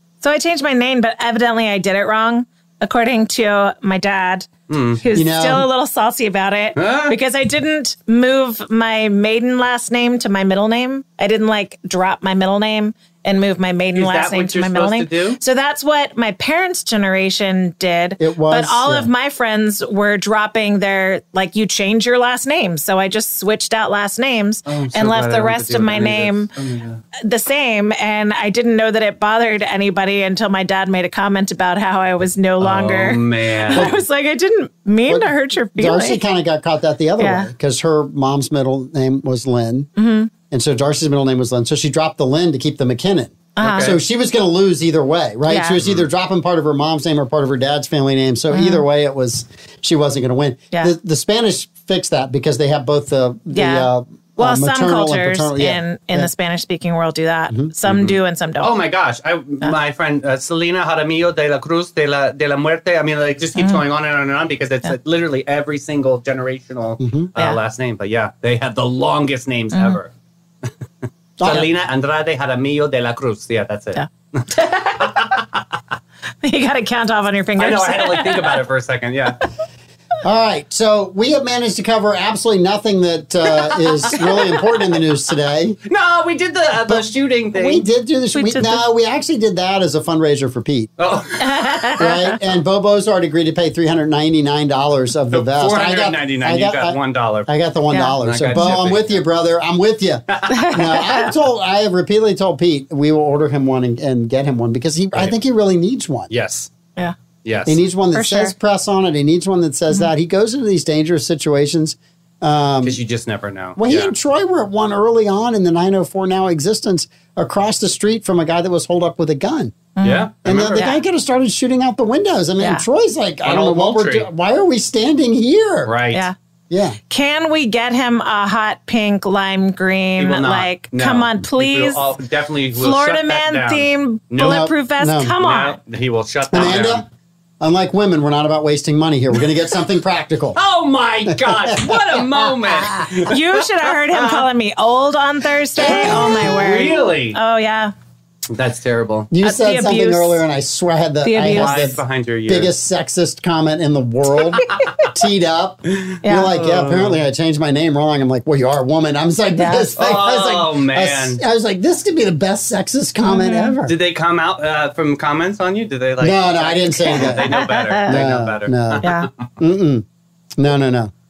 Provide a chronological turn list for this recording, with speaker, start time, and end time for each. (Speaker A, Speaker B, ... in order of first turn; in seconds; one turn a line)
Speaker A: 0.2-26.5
Speaker B: 4.7-5.0
Speaker C: 5.1-5.7
Speaker B: 6.8-7.2
Speaker B: 13.9-15.4
Speaker C: 18.2-19.1
Speaker B: 24.7-27.0
Speaker A: 27.2-36.2
Speaker B: 32.6-33.9
Speaker C: 35.1-39.9
Speaker A: 37.2-37.5
Speaker A: 40.0-40.3
Speaker C: 40.5-56.3
Speaker A: 43.5-43.9
Speaker B: 43.6-44.0
Speaker A: 45.5-45.8
Speaker A: 48.5-48.8
Speaker A: 53.5-58.7
Speaker B: 57.9-70.1
Speaker C: 67.0-67.3
Speaker A: 69.7-70.0
Speaker C: 71.4-71.7
Speaker B: 71.4-75.8
Speaker A: 74.0-75.4
Speaker A: 76.4-78.6
Speaker B: 77.6-79.4
Speaker C: 80.2-85.8
Speaker B: 83.7-84.6
Speaker B: 85.8-87.8
Speaker C: 86.9-90.9
Speaker A: 88.3-88.8
Speaker B: 91.0-92.0
Speaker A: 91.4-92.3
Speaker C: 92.0-106.3
Speaker B: 95.3-97.5
Speaker A: 97.9-98.2
Speaker B: 98.2-99.2
Speaker B: 100.3-100.6
Speaker A: 100.5-101.3
Speaker B: 106.3-106.7
Speaker B: 107.4-107.8
Speaker C: 107.7-113.0
Speaker A: 108.1-108.5
Speaker B: 112.8-114.1
Speaker C: 113.8-119.8
Speaker A: 120.0-121.0
Speaker B: 120.0-120.9
Speaker C: 120.4-125.9
Speaker B: 123.4-124.3
Speaker B: 125.8-126.3
Speaker C: 126.7-127.0
Speaker A: 127.1-132.0
Speaker B: 130.2-134.7
Speaker A: 132.7-135.8
Speaker C: 134.4-135.3
Speaker B: 135.4-137.0
Speaker C: 136.5-137.1
Speaker C: 137.6-140.6
Speaker B: 140.6-144.5
Speaker C: 141.3-143.1
Speaker A: 143.1-147.9
Speaker B: 145.8-147.4
Speaker C: 145.8-146.8
Speaker B: 148.5-149.3
Speaker C: 149.3-163.9
Speaker A: 149.4-150.4
Speaker A: 151.2-152.0
Speaker B: 151.4-152.7
Speaker B: 154.6-155.1
Speaker B: 155.9-157.2
Speaker A: 156.2-156.6
Speaker A: 159.6-159.9
Speaker B: 159.9-161.4
Speaker A: 163.2-163.7
Speaker B: 163.8-169.3
Speaker C: 166.2-171.1
Speaker A: 167.1-168.2
Speaker A: 169.0-169.3